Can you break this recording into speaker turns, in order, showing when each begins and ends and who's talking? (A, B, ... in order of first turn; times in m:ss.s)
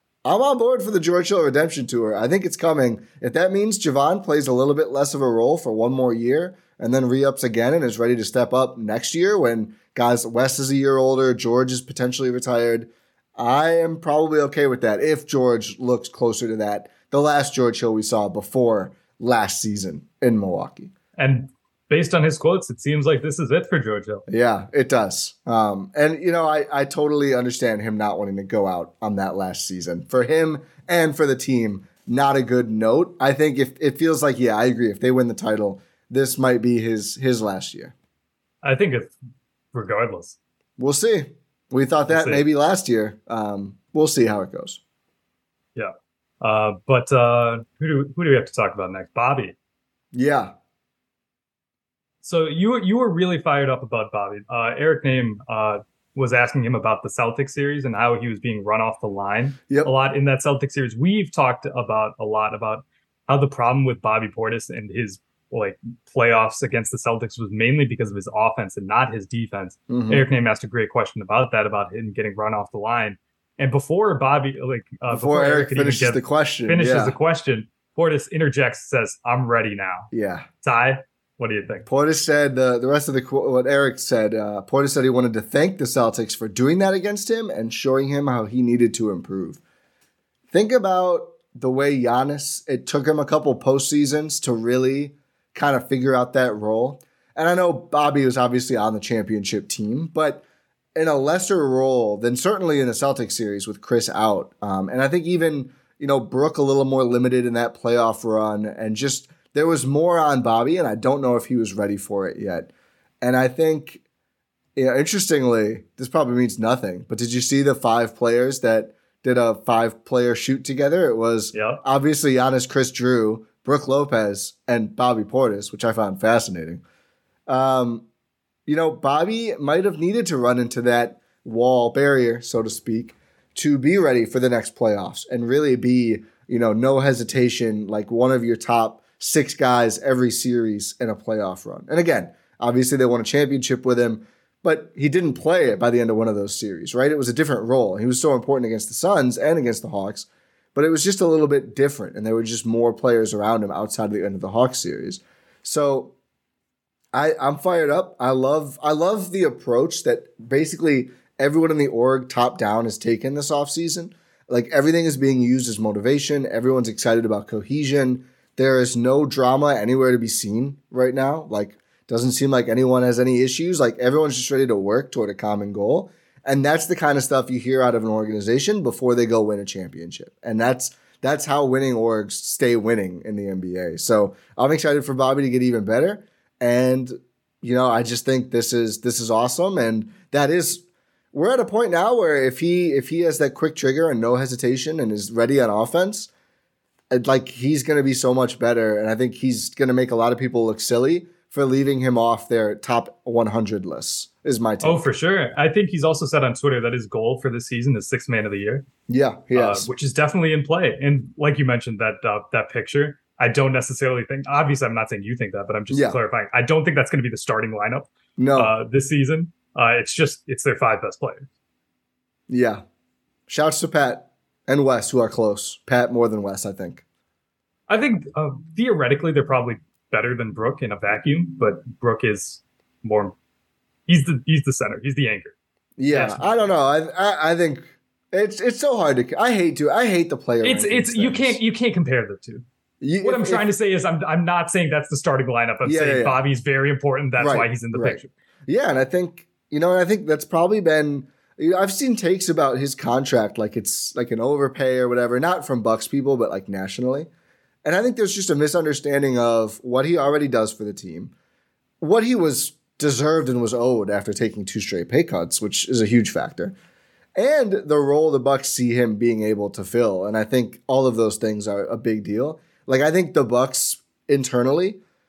0:00.2-0:20.9 A
0:21.2-0:24.2 B
0:24.3-0:37.9 A
0:38.6-0:39.1 B
0:39.7-0:40.4 B
0:40.8-0:44.8 A
0:42.1-0:42.4 B
0:45.8-0:49.5 B
0:50.1-0:50.5 A
0:52.2-1:20.1 B
1:09.9-1:10.2 A
1:15.1-1:17.2 A
1:20.1-1:20.5 A
1:20.6-1:21.9 B
1:21.9-1:29.6 A
1:30.5-1:52.7 A
1:53.2-1:54.0 A
1:54.8-2:06.8 A
2:01.5-2:01.8 B
2:07.5-2:08.0 A
2:08.6-2:36.1 A
2:37.1-3:16.3 A
3:17.1-3:25.1 A
3:24.8-3:28.8 B
3:29.1-3:29.9 A
3:29.5-3:41.5 B
3:35.9-3:36.2 A
3:38.4-3:38.7 A
3:42.5-3:42.8 A
3:43.5-3:47.0 A
3:47.9-3:53.3 B
3:54.1-3:55.5 B
3:56.0-4:01.6 A
3:56.1-3:56.5 B
4:00.6-4:02.6 B
4:03.0-4:03.7 A
4:03.2-4:08.3 B
4:05.8-4:06.4 A
4:07.4-4:17.3 A
4:17.8-4:21.3 A
4:22.0-4:26.7 A
4:27.4-4:35.0 A